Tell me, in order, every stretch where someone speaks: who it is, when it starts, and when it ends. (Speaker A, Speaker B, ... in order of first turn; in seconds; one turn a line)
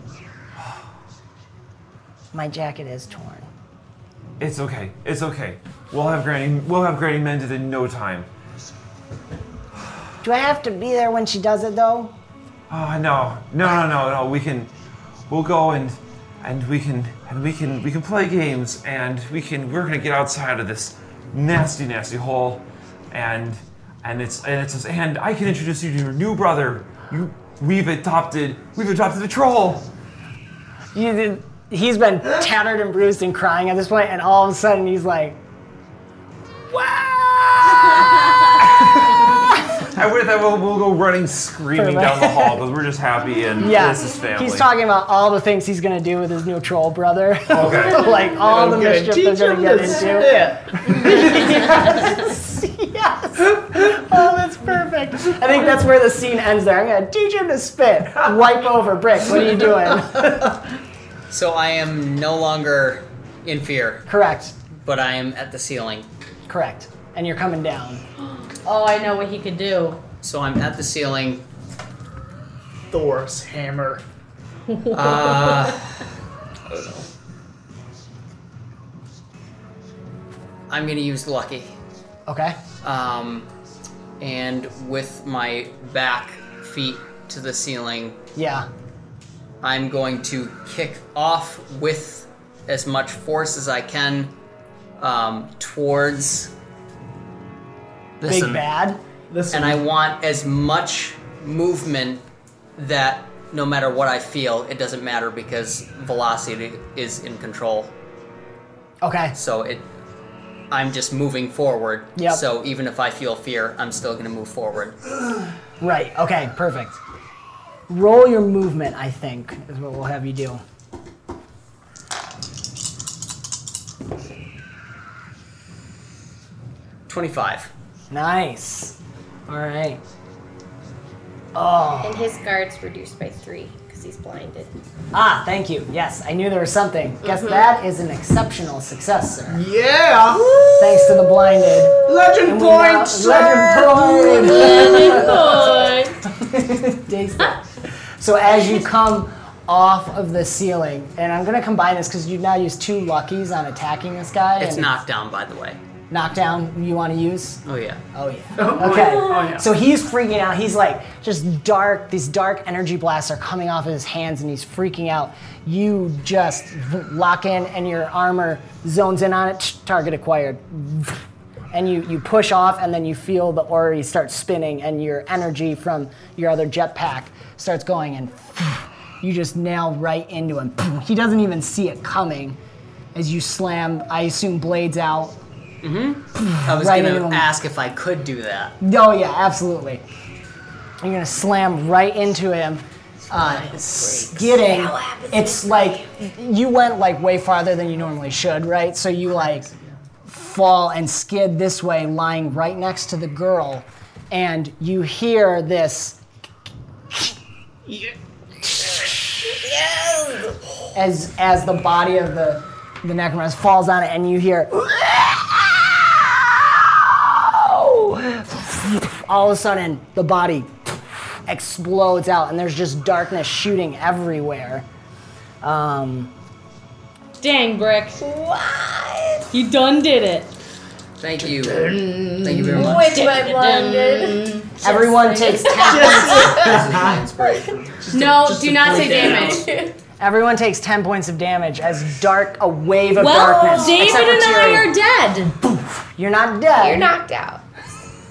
Speaker A: 2.3-3.5
Speaker B: 4.4-8.3
Speaker A: 10.2-12.1
Speaker B: 12.7-14.7
Speaker B: 15.3-29.9
Speaker A: 30.9-35.4
Speaker A: 36.7-39.8
Speaker B: 38.6-44.7
Speaker A: 41.7-42.6
Speaker A: 43.6-60.6
Speaker B: 47.5-48.2
Speaker C: 48.3-51.5
Speaker D: 61.3-64.0
Speaker A: 64.1-64.5
Speaker D: 64.8-66.1
Speaker A: 66.5-68.0
Speaker E: 68.4-70.0
Speaker D: 70.2-71.4
Speaker C: 72.9-74.0
Speaker E: 74.8-75.5
Speaker D: 74.9-75.9
Speaker C: 76.7-77.0
Speaker D: 80.7-81.7
Speaker A: 82.3-82.6
Speaker D: 82.8-83.5
Speaker D: 84.2-88.2
Speaker A: 88.3-88.7
Speaker D: 89.6-94.3
Speaker D: 95.0-96.5
Speaker D: 98.2-98.7
Speaker A: 98.2-99.0
Speaker C: 99.3-99.8
Speaker D: 99.5-102.2
Speaker D: 102.8-107.9
Speaker A: 109.0-109.3
Speaker D: 109.3-109.8
Speaker D: 110.7-115.0
Speaker A: 112.2-112.4
Speaker A: 115.8-117.0
Speaker A: 117.9-120.6
Speaker D: 127.1-127.7
Speaker A: 128.1-128.9
Speaker A: 129.5-130.0
Speaker A: 131.5-132.4
Speaker F: 132.0-134.7
Speaker A: 135.1-139.6
Speaker F: 137.2-137.6
Speaker C: 139.5-141.3
Speaker A: 140.8-154.9
Speaker F: 141.8-142.3
Speaker C: 142.0-144.5
Speaker F: 144.3-145.8
Speaker E: 144.4-146.2
Speaker D: 154.6-155.8
Speaker A: 156.1-157.6
Speaker D: 157.7-158.0
Speaker A: 158.1-182.6
Speaker C: 158.5-159.7
Speaker A: 183.1-185.4
Speaker D: 185.8-188.8
Speaker A: 186.4-187.5
Speaker A: 188.8-190.0
Speaker A: 191.0-199.7
Speaker F: 193.3-196.0
Speaker A: 200.2-206.2
Speaker A: 208.6-209.6
Speaker F: 209.4-210.6
Speaker A: 210.9-224.9
Speaker A: 225.6-226.3
Speaker E: 227.4-228.2
Speaker F: 228.2-229.4
Speaker E: 229.5-230.5
Speaker D: 231.2-233.0
Speaker C: 231.4-233.1
Speaker F: 232.7-234.5
Speaker E: 232.7-235.8
Speaker A: 234.8-236.6
Speaker F: 235.4-236.8
Speaker C: 235.8-237.3
Speaker D: 236.6-237.9
Speaker F: 237.4-237.7
Speaker C: 237.9-239.7
Speaker E: 238.1-239.7
Speaker D: 238.9-239.6
Speaker F: 239.4-239.9
Speaker A: 240.2-244.9
Speaker E: 243.1-245.6
Speaker A: 245.7-247.1
Speaker F: 246.8-247.6